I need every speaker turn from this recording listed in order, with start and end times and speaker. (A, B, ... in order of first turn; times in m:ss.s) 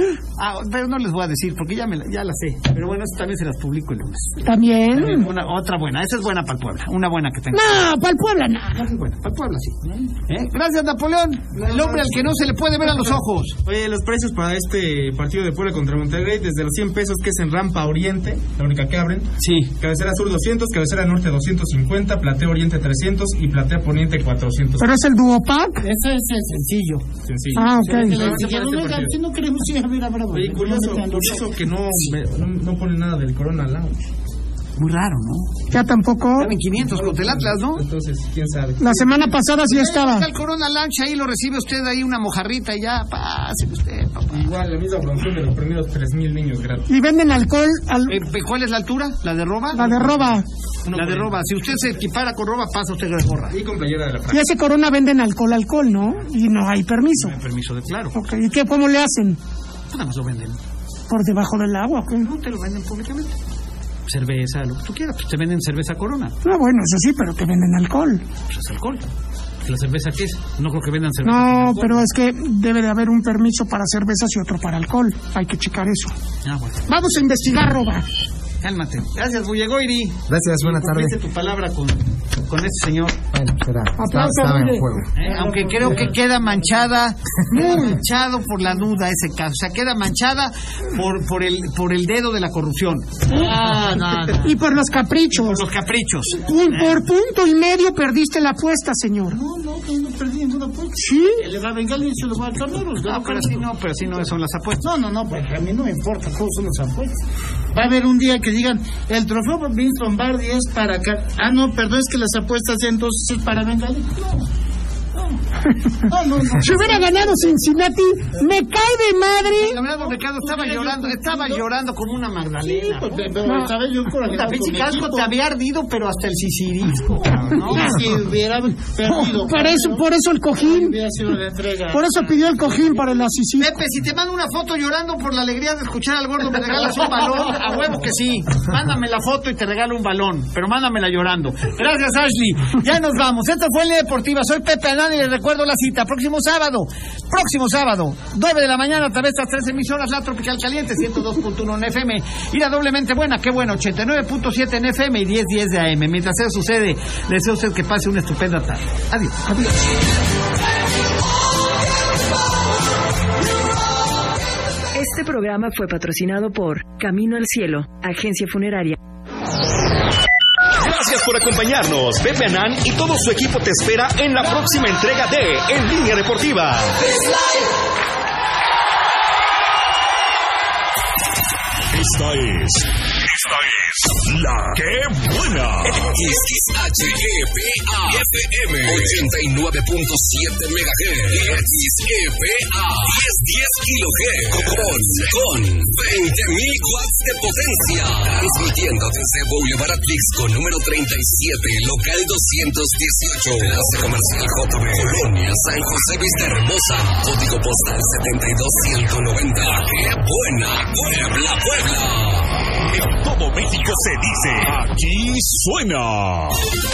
0:00.4-0:04.4 A
0:04.4-0:05.3 B
0:04.9-0:07.9 A
0:07.5-0:08.8 B
0:08.7-0:13.5 A
0:11.6-0:12.1 C
0:13.6-0:24.9 D
0:19.4-0:19.7 A
0:24.8-0:25.8 B
0:25.8-0:26.6 C
0:26.5-0:27.0 A
0:27.3-0:29.2 D
0:27.5-0:28.3 B
0:27.6-0:31.4 C
0:30.3-0:34.0 D
0:34.8-0:35.6 A
0:35.7-0:36.5 B
0:36.4-0:37.8 A
0:36.7-0:39.4 D
0:38.8-0:40.3 B
0:39.6-0:44.4 A
0:44.3-0:46.8 D
0:46.9-0:48.2 B
0:48.1-0:50.1 A
0:49.7-0:50.4 B
0:50.8-0:51.3 D
0:50.9-0:53.6 A
0:53.5-0:54.5 D
0:54.3-0:57.4 B
0:57.2-0:58.2 A
0:58.1-0:59.4 B
0:59.9-1:00.6 A
1:01.1-1:02.3 B
1:02.2-1:03.3 A
1:04.1-1:06.3 A
1:06.4-1:08.2 B
1:08.5-1:09.1 A
1:09.6-1:12.0 A
1:11.2-1:16.1 B
1:16.4-1:16.8 A
1:16.9-1:18.0 B
1:18.6-1:23.2 A
1:20.3-1:21.2 E
1:23.3-1:25.1 E
1:24.0-1:24.9 B
1:25.1-1:33.1 A
1:25.2-1:26.2 C
1:27.5-1:27.9 B
1:33.3-1:34.5 C
1:34.4-1:35.6 B
1:35.3-1:37.0 A
1:36.3-1:39.4 B
1:39.3-1:44.3 C
1:41.0-1:41.4 B
1:43.0-1:44.8 A
1:44.8-1:47.2 C
1:47.7-1:54.4 C
1:56.0-1:57.3 C
1:56.6-1:59.8 B
1:59.4-2:03.2 A
2:00.1-2:01.6 C
2:02.7-2:05.3 C
2:03.4-2:03.7 B
2:04.2-2:07.9 A
2:07.6-2:10.0 C
2:07.7-2:08.0 B
2:09.0-2:11.0 B
2:10.6-2:12.3 C
2:11.9-2:13.7 B
2:13.6-2:39.6 A
2:44.9-2:49.0 F
2:50.8-2:57.1 G
3:01.9-3:02.9 H
3:03.4-3:06.0 H
3:05.9-3:32.5 I
3:32.9-3:36.6 H